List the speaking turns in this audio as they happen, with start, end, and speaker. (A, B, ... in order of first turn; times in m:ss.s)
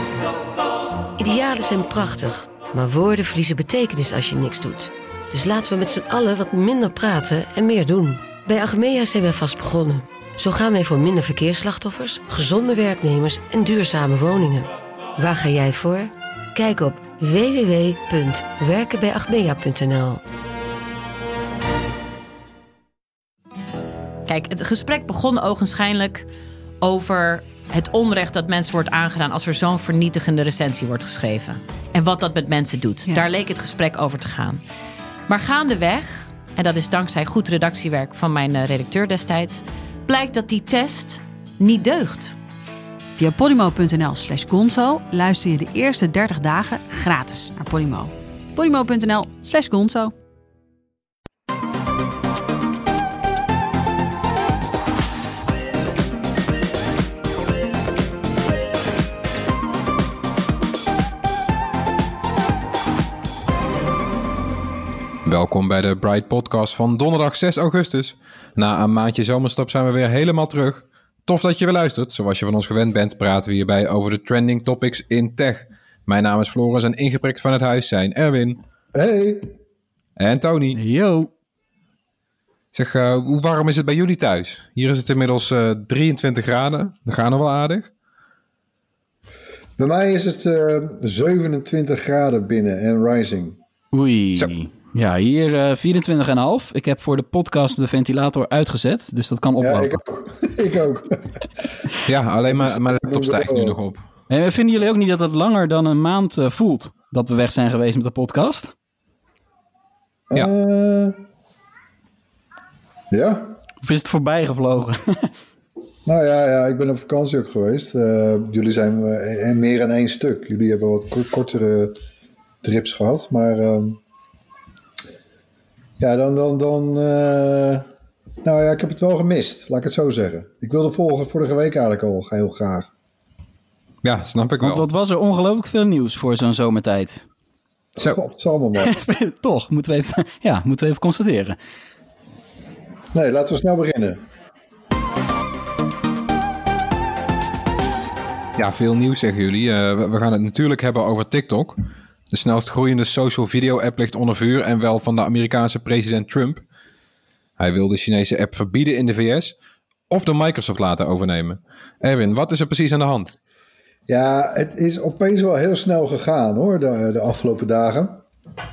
0:01.2-0:20.2 A
0:24.3-0:26.2 B
0:26.8-0:34.6 B
0:35.3-0:42.4 B
0:43.2-0:50.1 C
1:05.2-1:18.6 D
1:18.9-1:19.5 E
1:20.2-1:20.8 D
1:20.7-1:21.3 F
1:22.7-1:27.9 D
1:29.8-1:33.6 E
1:33.9-1:40.0 F
1:39.6-1:41.4 E
1:42.1-1:44.0 D
1:42.5-1:43.8 E
1:44.3-1:48.7 F
1:50.3-1:51.2 E
1:53.1-1:53.6 E
1:53.8-1:55.3 F
1:56.0-2:02.0 E
2:02.6-2:04.0 E
2:06.0-2:07.9 E
2:08.4-2:12.9 E
2:14.0-2:14.8 D
2:14.6-2:17.2 F
2:18.0-2:18.9 E
2:18.8-2:21.6 F
2:23.1-2:24.2 E
2:28.6-2:31.8 D
2:32.3-2:36.6 D
2:37.6-2:39.5 D
2:40.1-2:43.3 D
2:44.1-2:48.2 E